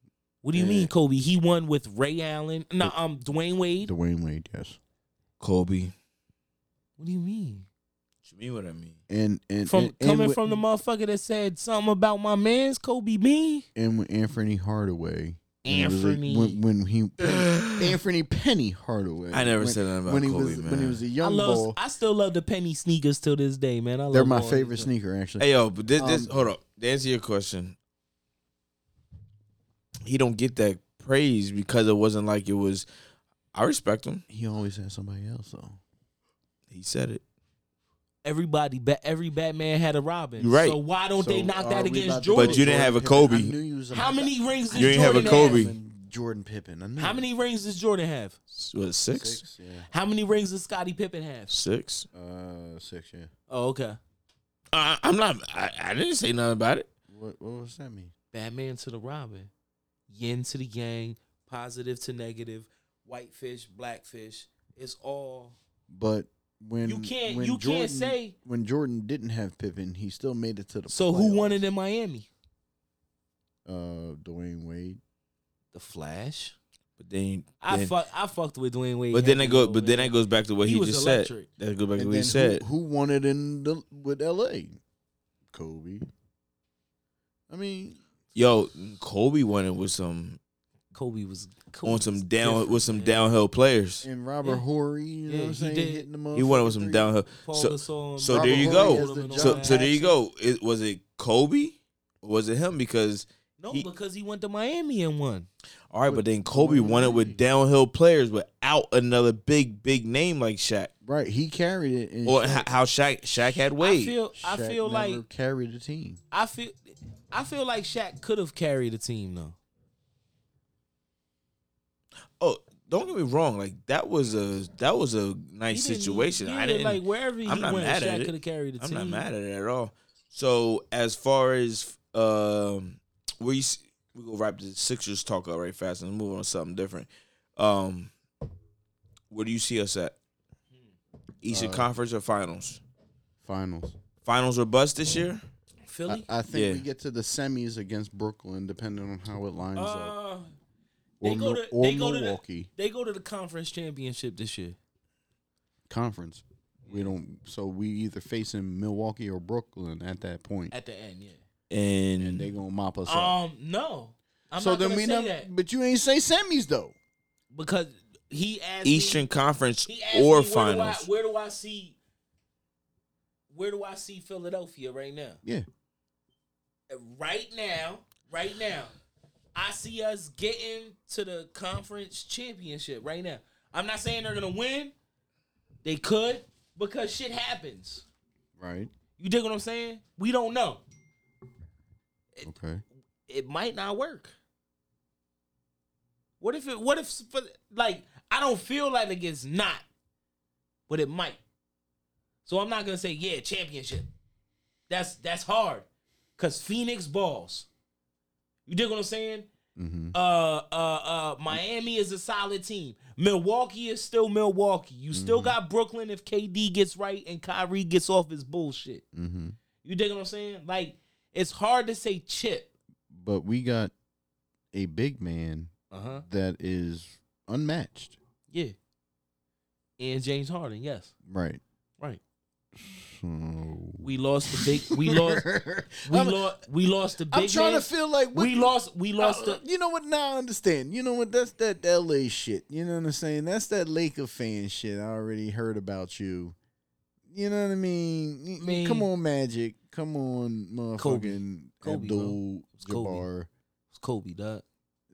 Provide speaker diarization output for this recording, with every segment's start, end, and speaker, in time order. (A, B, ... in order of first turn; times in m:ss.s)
0:00.4-0:03.9 A
0:00.5-0:00.9 B
0:03.8-0:04.8 B
0:05.4-0:05.9 C
0:07.0-0:07.6 A
0:08.2-0:09.0 C
0:09.1-0:10.6 B
0:09.7-0:13.6 A
0:13.7-0:21.8 B
0:15.6-0:16.6 A
0:17.2-0:17.9 C
0:19.3-0:21.0 C
0:21.2-0:24.9 A
0:24.1-0:26.4 B
0:25.4-0:27.8 C
0:30.0-0:32.9 C
0:33.5-0:34.2 C
0:34.3-0:35.8 B
0:36.7-0:37.2 C
0:38.2-0:42.7 A
0:40.4-0:40.8 C
0:41.2-0:47.2 B
0:42.3-0:43.5 C
0:43.9-0:45.7 A
0:44.7-0:45.7 C
0:47.0-0:48.4 A
0:48.5-0:49.4 C
0:49.1-0:49.9 B
0:49.9-0:51.5 A
0:51.5-0:52.1 C
0:52.1-0:53.3 B
0:53.5-0:54.0 A
0:54.7-0:56.9 C
0:57.1-0:58.1 B
0:58.3-0:59.5 A
1:00.1-1:05.5 A
1:05.9-1:11.6 B
1:06.8-1:08.3 A
1:10.9-1:12.3 A
1:13.6-1:15.0 B
1:15.7-1:16.5 A
1:17.0-1:17.9 C
1:17.6-1:21.5 A
1:19.1-1:22.6 C
1:22.0-1:24.8 B
1:25.5-1:26.1 B
1:27.5-1:28.0 B
1:28.3-1:30.4 C
1:30.9-1:33.2 A
1:31.8-1:34.0 C
1:34.0-1:37.1 B
1:35.3-1:36.0 A
1:36.3-1:43.9 C
1:37.4-1:40.1 A
1:38.3-1:40.0 B
1:43.6-1:45.5 A
1:45.9-1:50.9 C
1:46.0-1:47.4 B
1:51.0-1:52.7 B
1:52.2-1:54.1 C
1:53.8-1:55.2 A
1:54.4-1:56.2 B
1:56.3-1:56.8 A
1:57.3-1:59.5 A
2:02.4-2:18.1 C
2:05.7-2:09.2 A
2:19.3-2:20.1 C
2:21.4-2:22.8 C
2:21.5-2:21.9 B
2:23.4-2:24.0 B
2:24.2-2:25.4 C
2:25.9-2:26.3 A
2:26.1-2:30.1 B
2:26.5-2:26.8 C
2:29.8-2:30.5 A
2:31.2-2:32.7 B
2:31.2-2:34.8 A
2:35.9-2:40.7 B
2:40.7-2:41.4 A
2:41.7-2:42.5 C
2:42.2-2:43.4 B
2:43.1-2:45.5 A
2:44.6-2:46.9 B
2:47.5-2:49.2 A
2:48.8-2:51.1 C
2:49.8-2:52.0 A
2:53.5-2:55.4 A
2:56.9-2:58.9 A
2:59.5-3:04.9 A
3:05.8-3:08.0 A
3:08.6-3:08.9 B
3:09.2-3:10.8 A
3:12.4-3:12.8 B
3:13.3-3:14.3 A
3:16.4-3:19.8 A
3:20.9-3:21.4 A
3:22.4-3:24.1 A
3:24.9-3:25.8 A
3:26.4-3:27.7 A
3:28.7-3:29.5 A
3:29.8-3:30.1 B
3:30.1-3:39.0 A
3:35.1-3:35.6 B
3:39.1-3:39.6 B
3:39.8-3:42.7 A
3:43.1-3:43.9 B
3:44.7-3:45.7 B
3:45.9-3:46.2 A
3:46.2-3:48.2 B
3:50.0-3:51.1 A
3:51.3-3:51.6 B
3:52.8-3:56.4 B
3:54.0-3:55.4 A
3:56.0-3:59.6 A
3:57.3-4:06.5 B
4:07.3-4:13.5 B
4:08.6-4:09.1 A
4:11.0-4:13.2 A
4:13.9-4:14.6 A